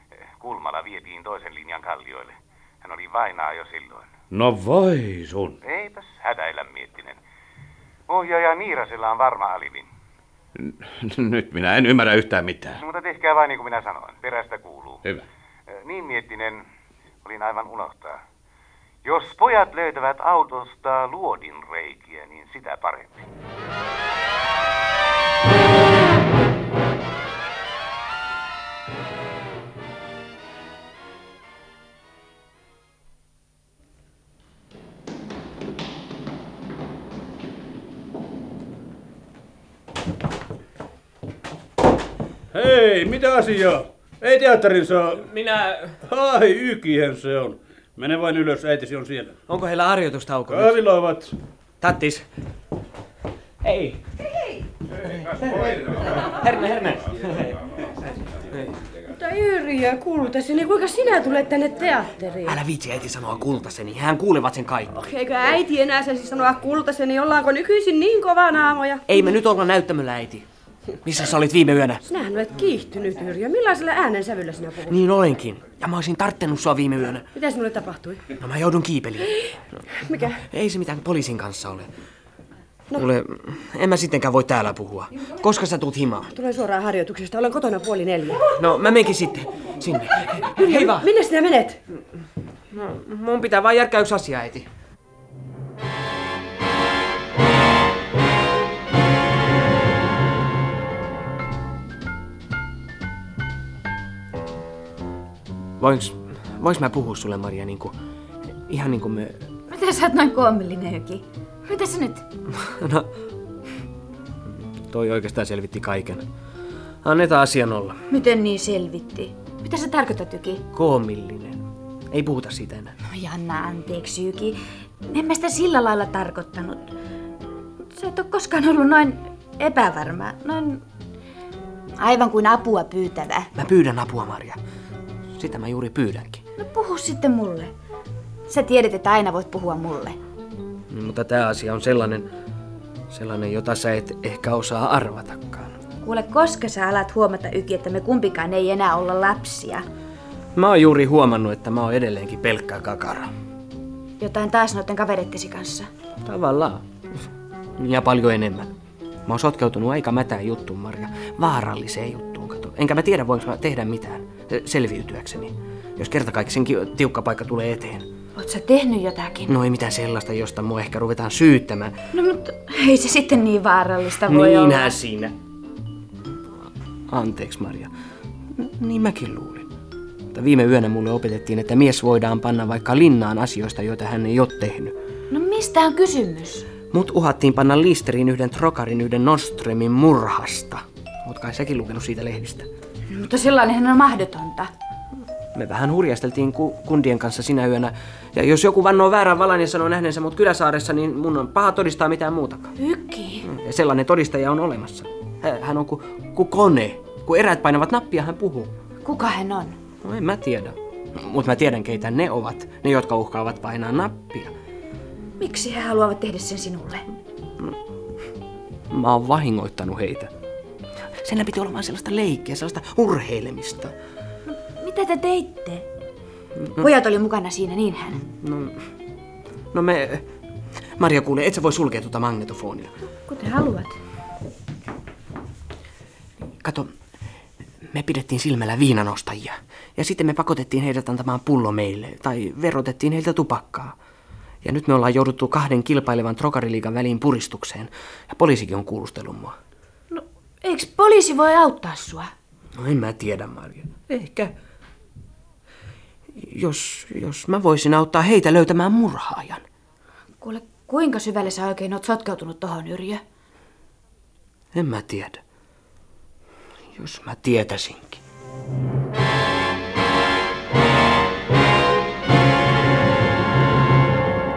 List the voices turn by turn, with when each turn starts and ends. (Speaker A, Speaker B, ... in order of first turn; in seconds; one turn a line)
Speaker A: 0.4-4.1
Speaker B: 4.3-5.6
Speaker A: 5.6-7.2
Speaker A: 8.1-9.9
Speaker B: 10.6-12.8
Speaker A: 12.8-15.0
Speaker A: 15.7-16.6
Speaker A: 17.2-18.2
Speaker A: 19.0-23.2
Speaker C: 42.5-49.4
Speaker D: 49.5-50.9
Speaker C: 50.5-51.3
Speaker D: 51.8-52.2
Speaker D: 53.6-54.0
Speaker D: 55.2-57.6
Speaker E: 59.1-62.6
Speaker D: 62.4-65.0
Speaker E: 65.0-69.1
Speaker D: 69.1-70.5
Speaker D: 71.0-72.0
Speaker E: 72.1-75.0
Speaker D: 74.9-77.3
Speaker E: 77.3-78.2
Speaker D: 78.3-79.8
Speaker E: 80.0-80.4
Speaker D: 80.5-81.9
Speaker D: 82.9-86.3
Speaker E: 86.3-88.5
Speaker D: 88.5-91.1
Speaker E: 90.5-91.8
Speaker D: 92.7-94.7
Speaker D: 105.8-108.0
Speaker D: 108.7-109.4
Speaker F: 109.7-112.2
Speaker D: 112.6-113.1
Speaker D: 114.9-116.2
Speaker D: 117.0-118.0
Speaker F: 118.1-120.6
Speaker D: 120.7-123.0
Speaker F: 123.1-126.9
Speaker F: 127.9-130.8
Speaker F: 132.0-133.5
Speaker D: 133.5-134.6
Speaker D: 135.3-136.4
Speaker F: 136.6-137.7
Speaker F: 138.5-140.2
Speaker D: 140.9-142.3
Speaker D: 143.1-145.7
Speaker F: 146.0-149.8
Speaker D: 150.5-153.3
Speaker F: 154.2-155.9
Speaker D: 156.2-156.8
Speaker D: 157.8-158.7
Speaker D: 159.2-168.1
Speaker F: 168.3-169.5
Speaker D: 169.5-171.9
Speaker F: 172.1-174.9
Speaker D: 174.3-175.3
Speaker D: 177.1-177.9
Speaker D: 178.5-179.7
Speaker D: 180.3-184.9
Speaker F: 185.3-186.7
Speaker D: 186.9-192.7
Speaker F: 193.1-194.7
Speaker D: 195.5-202.7
Speaker F: 202.8-203.4
Speaker D: 203.4-208.7
Speaker F: 209.0-209.8
Speaker D: 210.0-214.5
Speaker F: 215.4-217.0
Speaker D: 218.9-220.3
Speaker D: 221.2-223.9
Speaker F: 224.5-225.8
Speaker F: 226.8-228.2
Speaker D: 228.2-228.8
Speaker D: 229.7-230.3
Speaker D: 231.0-232.9
Speaker F: 233.3-234.0
Speaker D: 236.6-236.9
Speaker D: 237.9-243.9
Speaker D: 244.6-249.6
Speaker F: 250.1-252.3
Speaker D: 252.8-254.5
Speaker D: 256.4-259.6
Speaker F: 260.4-263.2
Speaker D: 264.7-265.4
Speaker D: 266.9-268.2